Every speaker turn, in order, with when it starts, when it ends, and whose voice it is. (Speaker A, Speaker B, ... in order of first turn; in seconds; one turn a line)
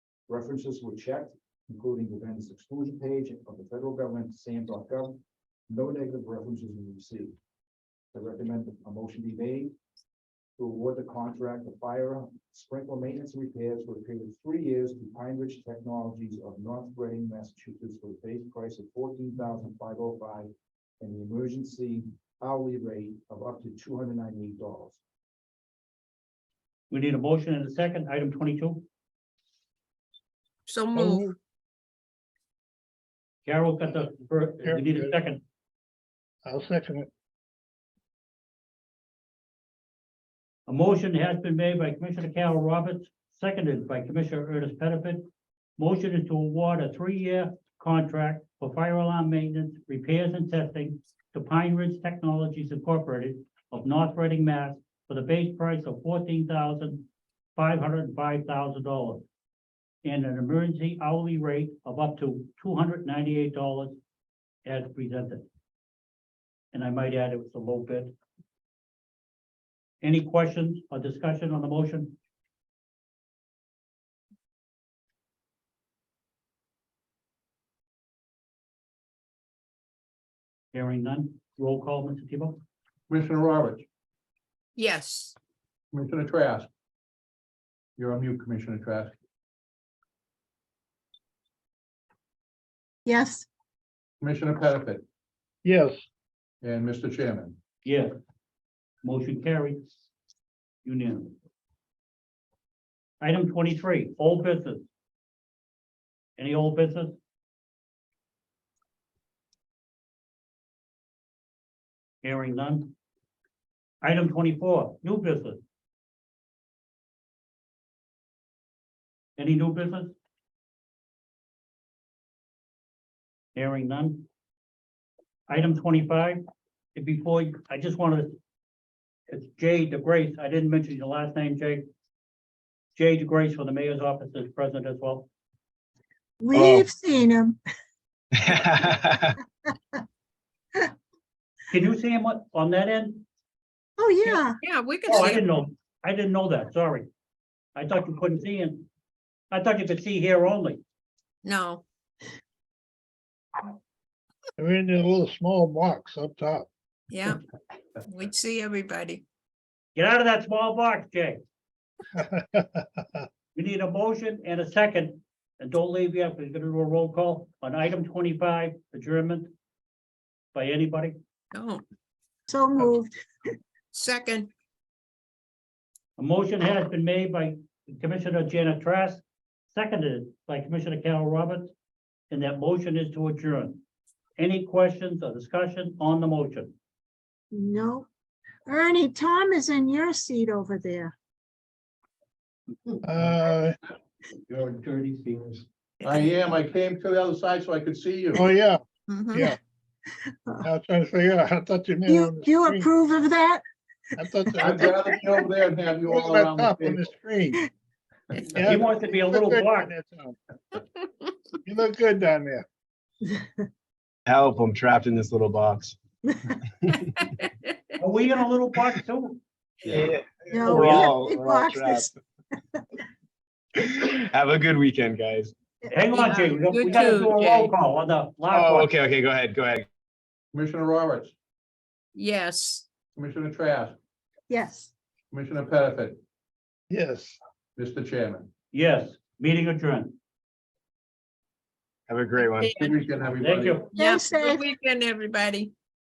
Speaker A: 0.3-7.3
Speaker A: 8.1-9.7
Speaker A: 10.6-25.0
Speaker B: 26.9-28.8
Speaker C: 30.7-31.3
Speaker D: 30.9-31.3
Speaker B: 33.4-35.4
Speaker D: 34.6-35.1
Speaker D: 36.4-37.1
Speaker B: 40.7-45.2
Speaker B: 45.8-59.2
Speaker B: 60.0-64.0
Speaker B: 64.6-65.5
Speaker B: 66.7-68.1
Speaker B: 70.0-72.1
Speaker B: 80.7-82.6
Speaker E: 83.1-83.8
Speaker C: 84.8-85.3
Speaker E: 85.9-86.7
Speaker E: 88.0-89.1
Speaker F: 93.0-93.5
Speaker E: 94.2-95.0
Speaker D: 95.6-96.0
Speaker E: 96.6-97.5
Speaker B: 97.8-98.1
Speaker B: 99.0-99.8
Speaker B: 100.8-101.3
Speaker B: 103.2-104.9
Speaker B: 106.4-107.2
Speaker B: 112.2-112.9
Speaker B: 114.0-115.6
Speaker B: 119.4-120.1
Speaker B: 123.5-124.3
Speaker B: 125.5-126.4
Speaker B: 126.9-128.3
Speaker B: 129.3-131.8
Speaker B: 132.9-135.3
Speaker F: 136.4-137.6
Speaker G: 136.5-136.9
Speaker G: 138.4-139.3
Speaker B: 141.7-143.2
Speaker F: 144.0-144.6
Speaker C: 144.6-145.4
Speaker B: 145.1-147.1
Speaker B: 147.7-148.8
Speaker B: 149.5-150.8
Speaker C: 151.4-151.8
Speaker D: 154.6-156.7
Speaker C: 157.1-157.4
Speaker C: 158.0-159.2
Speaker B: 159.9-161.4
Speaker D: 162.2-162.8
Speaker B: 163.5-169.5
Speaker B: 170.5-171.2
Speaker C: 171.5-171.8
Speaker F: 172.5-173.1
Speaker C: 173.9-174.5
Speaker B: 176.2-181.7
Speaker B: 182.3-183.8
Speaker B: 184.4-186.7
Speaker F: 187.5-188.1
Speaker F: 188.7-191.1
Speaker D: 193.0-193.8
Speaker B: 194.5-195.6
Speaker E: 196.0-198.4
Speaker D: 198.3-198.8
Speaker C: 199.1-199.5
Speaker D: 199.3-199.6
Speaker D: 200.6-202.9
Speaker F: 202.1-203.6
Speaker D: 204.2-204.9
Speaker E: 204.6-207.1
Speaker D: 206.1-207.6
Speaker D: 208.5-210.4
Speaker B: 208.7-209.9
Speaker D: 211.6-212.6
Speaker G: 214.2-216.0
Speaker B: 218.0-219.4
Speaker G: 219.8-222.1
Speaker F: 220.5-222.1
Speaker B: 220.7-221.1
Speaker G: 223.8-225.5
Speaker B: 225.9-228.9
Speaker C: 226.1-227.7
Speaker E: 226.8-227.3
Speaker G: 228.5-229.9
Speaker E: 230.5-231.3
Speaker C: 232.1-232.8
Speaker E: 233.1-234.0
Speaker F: 234.5-234.9
Speaker E: 235.3-236.2
Speaker D: 236.9-237.4
Speaker E: 237.8-238.5
Speaker B: 238.7-240.1
Speaker G: 242.1-242.8
Speaker C: 242.6-243.0
Speaker E: 242.7-243.9
Speaker B: 243.3-243.9
Speaker C: 243.9-245.7
Speaker F: 244.0-244.7